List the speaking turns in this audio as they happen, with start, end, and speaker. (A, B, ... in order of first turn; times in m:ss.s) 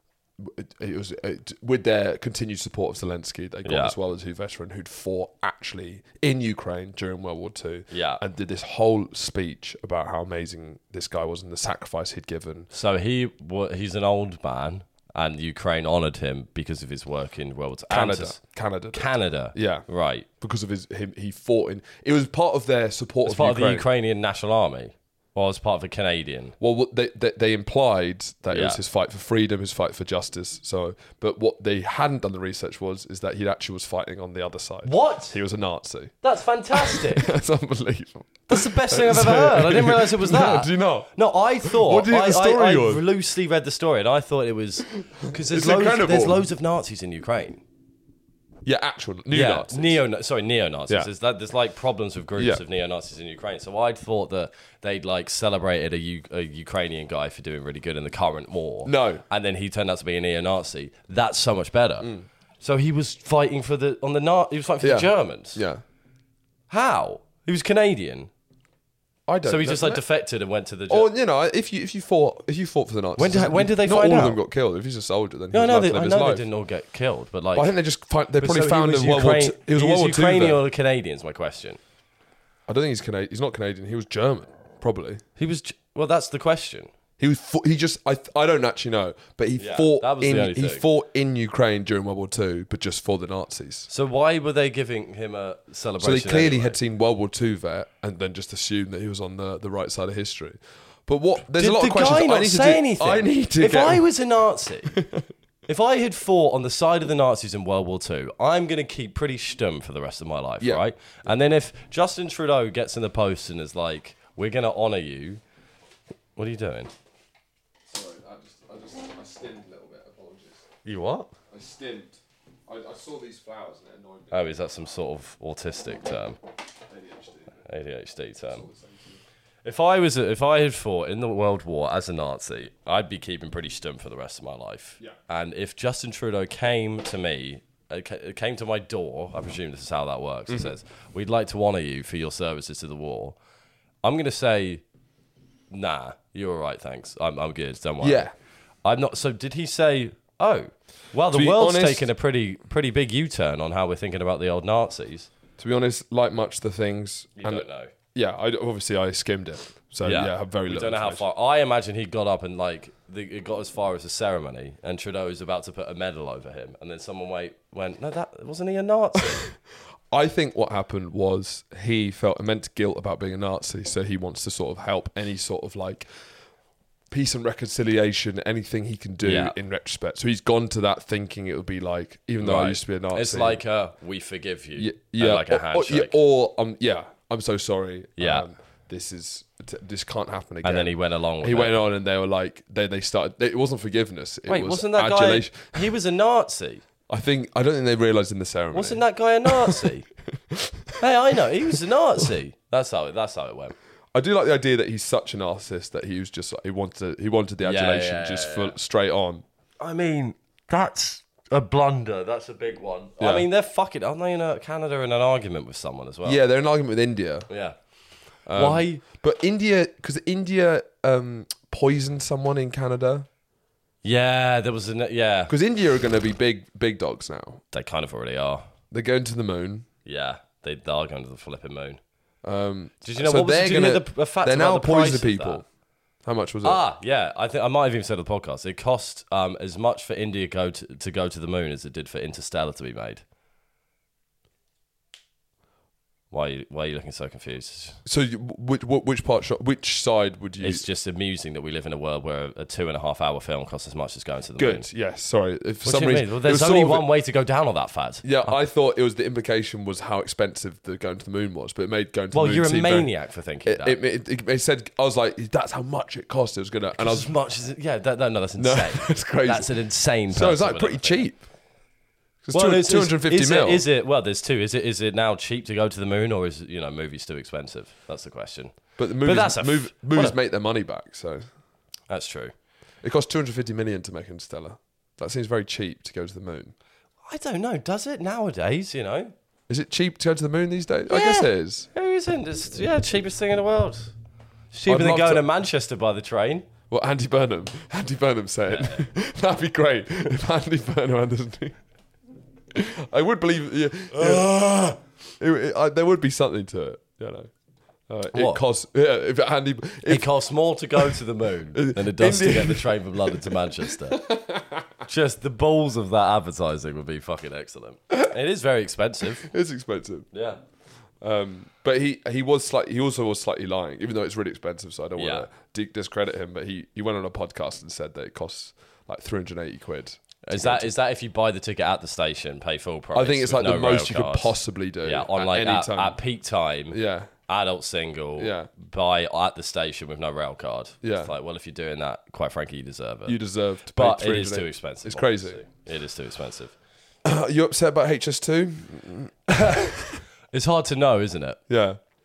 0:00.4-0:12.7 A
0:03.6-0:03.9 B
0:07.9-0:08.2 B
0:12.7-0:18.4 B
0:17.9-0:19.8 A
0:18.9-0:20.2 B
0:20.4-0:23.8 A
0:23.2-0:26.6 B
0:26.6-0:36.1 A
0:28.5-0:28.8 B
0:34.8-0:35.4 B
0:36.2-0:37.3 B
0:36.7-0:41.1 A
0:38.5-0:47.6 B
0:41.6-0:43.0 A
0:45.2-0:46.4 A
0:48.6-0:50.0 A
0:49.3-1:02.1 B
0:52.4-0:52.6 A
0:58.8-0:59.2 A
1:02.6-1:05.6 B
1:04.8-1:05.8 A
1:06.7-1:08.3 B
1:09.3-1:10.0 A
1:09.4-1:11.1 B
1:10.9-1:16.4 A
1:13.2-1:14.4 B
1:15.5-1:17.7 B
1:17.5-1:20.6 A
1:18.4-1:21.8 B
1:22.7-1:25.2 A
1:25.4-1:26.9 B
1:27.2-1:33.9 A
1:29.6-1:30.8 B
1:33.9-1:36.8 B
1:36.0-1:44.0 A
1:41.5-1:44.9 B
1:44.9-1:45.3 A
1:45.7-1:55.4 B
1:56.4-1:56.9 B
1:57.9-2:00.6 A
2:00.8-2:01.3 B
2:01.5-2:04.4 A
2:04.3-2:06.4 B
2:06.9-2:07.6 A
2:07.6-2:08.6 B
2:08.5-2:09.2 A
2:09.6-2:23.4 B
2:24.0-2:24.8 B
2:25.7-2:28.3 B
2:28.0-2:28.3 A
2:28.8-2:35.3 B
2:31.3-2:32.1 A
2:35.6-2:41.2 A
2:37.4-2:37.9 B
2:40.0-2:49.5 B
2:50.1-2:56.1 A
2:57.1-3:03.6 A
2:59.2-2:59.5 B
3:02.4-3:06.2 B
3:04.8-3:15.9 A
3:08.2-3:08.5 B
3:10.6-3:11.8 B
3:14.5-3:16.8 B
3:17.1-3:21.0 A
3:18.7-3:20.0 B
3:21.0-3:23.8 B
3:24.1-3:29.4 A
3:27.6-3:28.7 B
3:29.8-3:36.4 B
3:33.2-3:33.4 A
3:36.2-3:37.5 A
3:37.5-3:37.8 B
3:38.5-3:43.3 A
3:38.5-3:39.0 B
3:44.0-3:45.5 B
3:45.5-3:47.6 A
3:47.7-3:48.6 B
3:48.9-3:49.8 A
3:50.0-3:52.0 B
3:52.4-3:55.6 A
3:53.0-3:55.6 B
3:56.2-3:56.8 A
3:56.6-4:03.2 B
4:06.3-4:08.0 B
4:08.0-4:10.8 A
4:10.6-4:14.8 B
4:14.6-4:17.1 A
4:15.8-4:18.5 B
4:18.2-4:23.1 A
4:22.3-4:24.0 B
4:23.6-4:27.3 A
4:26.9-4:31.2 B
4:28.6-4:29.7 A
4:30.3-4:31.4 A
4:32.4-4:33.8 A
4:32.5-4:40.3 B
4:39.0-4:41.4 A
4:42.1-4:42.5 B
4:43.0-4:46.7 A
4:47.2-4:49.3 B
4:49.7-4:51.9 A
4:51.1-4:54.1 B
4:54.7-4:56.7 B
4:54.8-4:55.4 A
4:56.9-5:01.7 A
4:58.7-4:59.0 B
5:02.7-5:07.5 A
5:04.2-5:04.4 B
5:08.1-5:10.3 A
5:08.3-5:08.6 B
5:10.1-5:14.2 B
5:11.7-5:14.9 A
5:15.0-5:19.5 B
5:19.4-5:20.3 A
5:20.3-5:20.6 B
5:21.2-5:30.9 A
5:25.2-5:25.5 B
5:30.4-5:43.4 B
5:33.1-5:36.2 A
5:36.9-5:37.3 A
5:38.4-5:38.7 A
5:41.0-5:41.3 A
5:43.2-5:45.6 A
5:43.9-5:46.8 B
5:47.2-5:50.2 A
5:49.5-5:49.9 B
5:50.5-5:51.6 B
5:51.7-5:52.0 A